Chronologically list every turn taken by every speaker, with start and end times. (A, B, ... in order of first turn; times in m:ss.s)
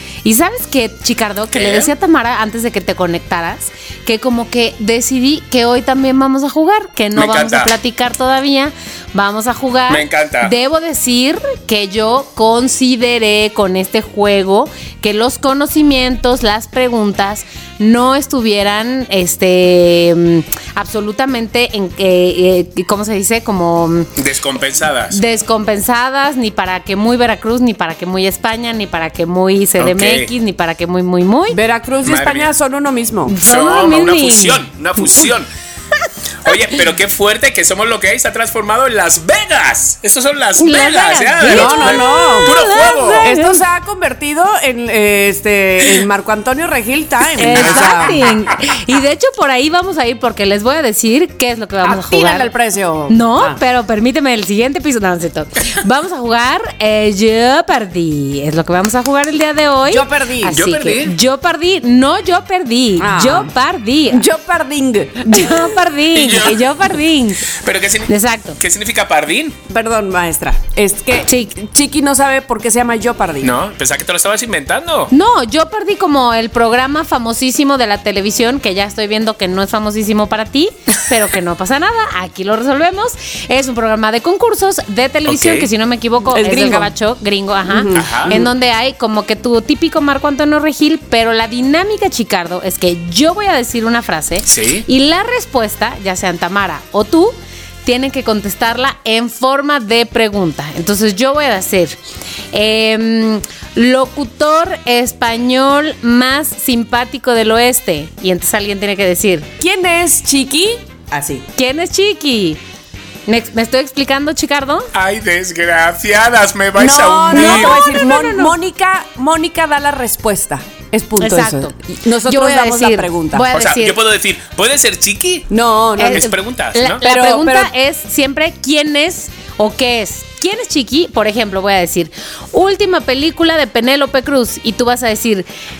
0:00.2-0:24.1 A
0:01.5-0:01.9 B
0:07.1-0:07.7 B
0:09.9-0:10.5 B
0:24.2-0:25.2 B
0:25.1-0:31.6 A
0:29.8-0:30.3 B
0:31.5-0:33.4 C
0:32.0-0:32.5 B
0:33.3-0:34.6 A
0:33.4-0:35.5 B
0:36.4-0:43.3 B
0:40.6-0:43.6 A
0:41.4-0:42.5 C
0:43.2-0:48.2 C
0:47.4-0:52.5 A
0:47.4-0:48.3 B
0:51.8-0:53.6 C
0:53.1-1:04.3 A
0:59.9-1:00.6 C
1:00.5-1:01.2 B
1:03.0-1:03.5 C
1:04.1-1:05.7 C
1:05.2-1:07.5 A
1:06.1-1:09.6 B
1:08.1-1:08.6 A
1:09.7-1:13.5 C
1:11.3-1:11.5 A
1:13.4-1:15.1 B
1:15.1-1:42.0 A
1:25.2-1:25.7 B
1:26.3-1:26.9 C
1:27.6-1:28.5 C
1:27.9-1:28.4 B
1:34.4-1:34.8 B
1:42.5-1:49.5 A
1:49.6-1:51.5 C
1:51.6-1:52.6 A
1:53.3-1:54.9 A
1:54.9-1:57.8 B
1:56.8-2:03.4 C
1:57.3-1:58.5 A
2:01.2-2:01.7 A
2:02.2-2:04.0 A
2:03.5-2:05.5 B
2:05.5-2:06.3 C
2:06.0-2:15.5 A
2:06.1-2:07.0 B
2:07.0-2:07.7 C